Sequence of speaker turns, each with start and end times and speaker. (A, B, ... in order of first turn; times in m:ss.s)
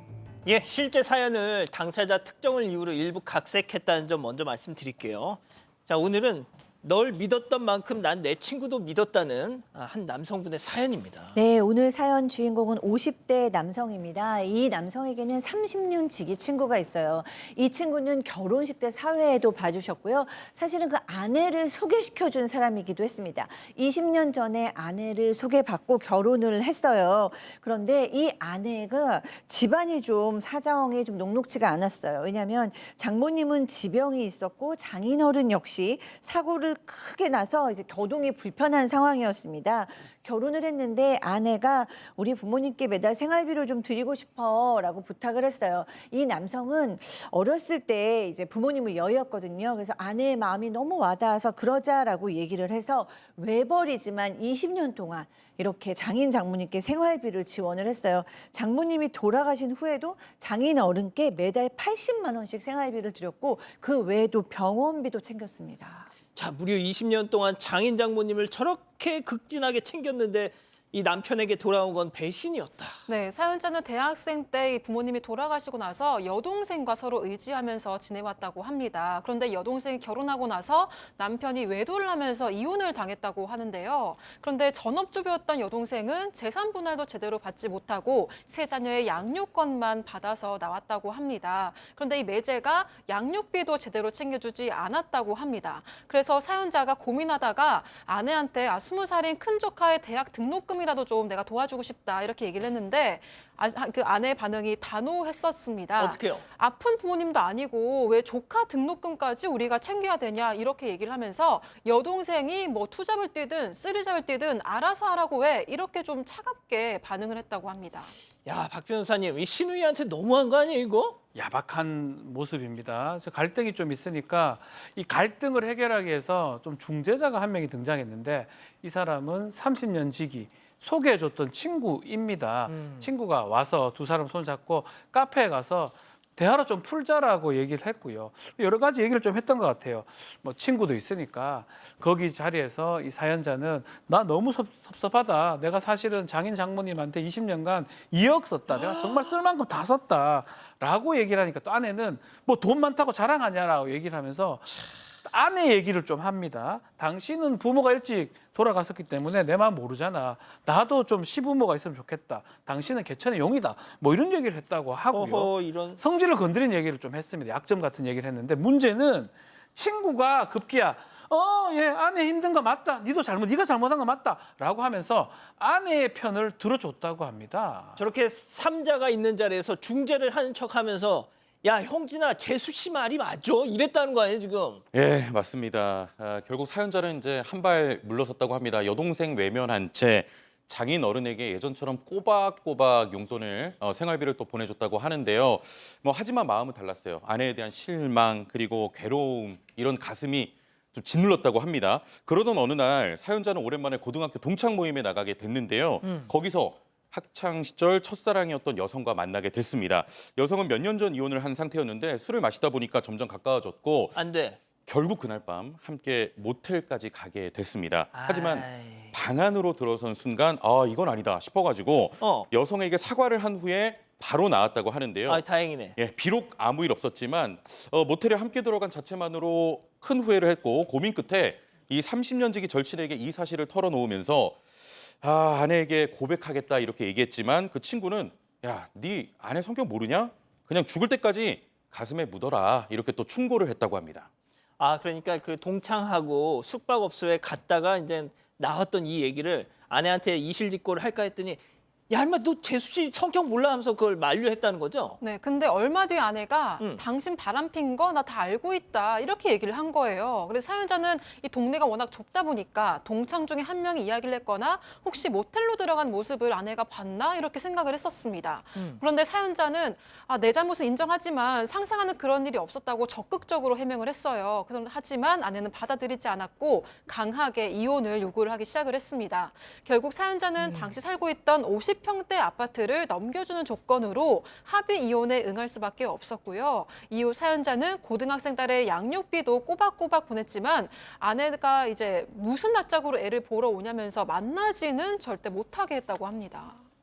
0:00.4-0:11.4 A
0:11.4-1:06.1 B
1:06.4-1:13.0 A
1:13.1-1:58.1 C
1:46.0-1:46.4 A
1:58.4-2:01.2 A
2:01.4-2:58.0 D
2:12.7-2:13.0 A
2:28.7-2:29.2 A
2:45.1-2:46.0 A
2:58.0-3:04.8 A
3:04.9-3:34.2 E
3:26.0-3:26.3 A
3:34.2-3:34.6 A
3:34.8-4:04.3 E
3:38.1-3:39.2 A
3:42.2-3:42.5 A
3:45.3-3:46.0 A
4:04.8-4:15.2 A
4:15.2-4:56.8 C
4:28.8-4:29.0 A
4:40.6-4:41.0 B